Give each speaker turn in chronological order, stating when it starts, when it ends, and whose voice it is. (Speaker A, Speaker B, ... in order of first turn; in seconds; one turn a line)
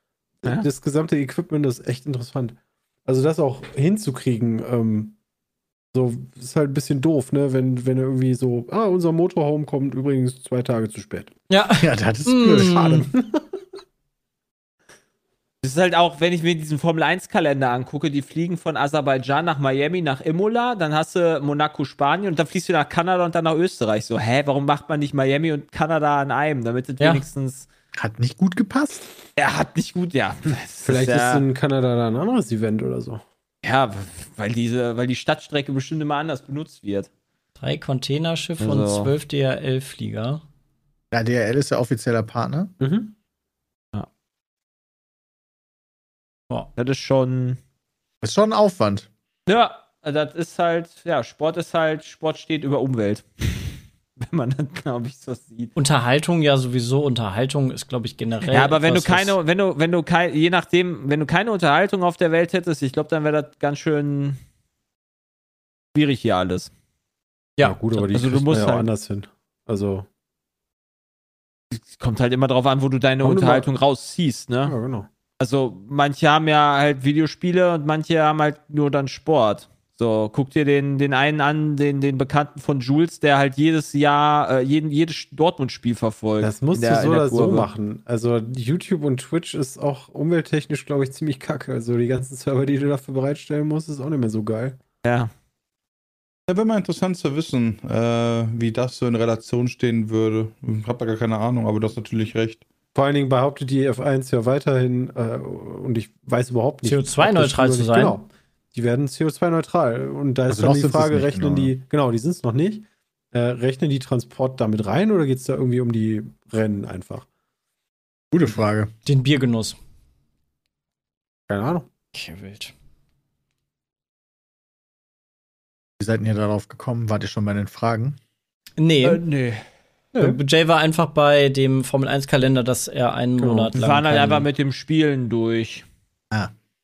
Speaker A: 0.4-5.2
Speaker A: 5.9-11.3
Speaker B: 11.5-13.0
Speaker C: 11.8-13.1
Speaker A: 13.1-13.4
Speaker D: 15.6-27.6
Speaker C: 27.9-29.1
Speaker D: 29.4-31.4
Speaker A: 30.8-33.2
Speaker D: 33.6-37.1
Speaker B: 37.6-40.4
Speaker D: 38.6-39.1
Speaker C: 41.1-42.7
Speaker A: 42.8-43.1
Speaker D: 46.8-47.6
Speaker C: 48.2-49.1
Speaker D: 49.5-55.7
Speaker B: 55.8-59.4
Speaker D: 58.5-64.4
Speaker D: 65.9-66.7
Speaker B: 67.6-68.0
Speaker A: 67.6-70.0
Speaker D: 68.1-68.9
Speaker D: 71.7-74.7
Speaker A: 73.2-73.7
Speaker A: 74.6-75.1
Speaker D: 75.4-87.7
Speaker A: 86.4-94.8
Speaker D: 95.0-95.3
Speaker E: 96.5-102.6
Speaker A: 102.9-117.2
Speaker B: 106.8-108.2
Speaker C: 110.5-111.7
Speaker C: 118.3-118.9
Speaker B: 119.0-119.8
Speaker A: 121.5-121.8
Speaker B: 122.1-122.7
Speaker C: 126.0-128.2
Speaker B: 128.8-129.2
Speaker D: 129.0-129.6
Speaker A: 130.1-130.4
Speaker B: 130.2-134.5
Speaker A: 133.4-133.7
Speaker D: 133.8-135.8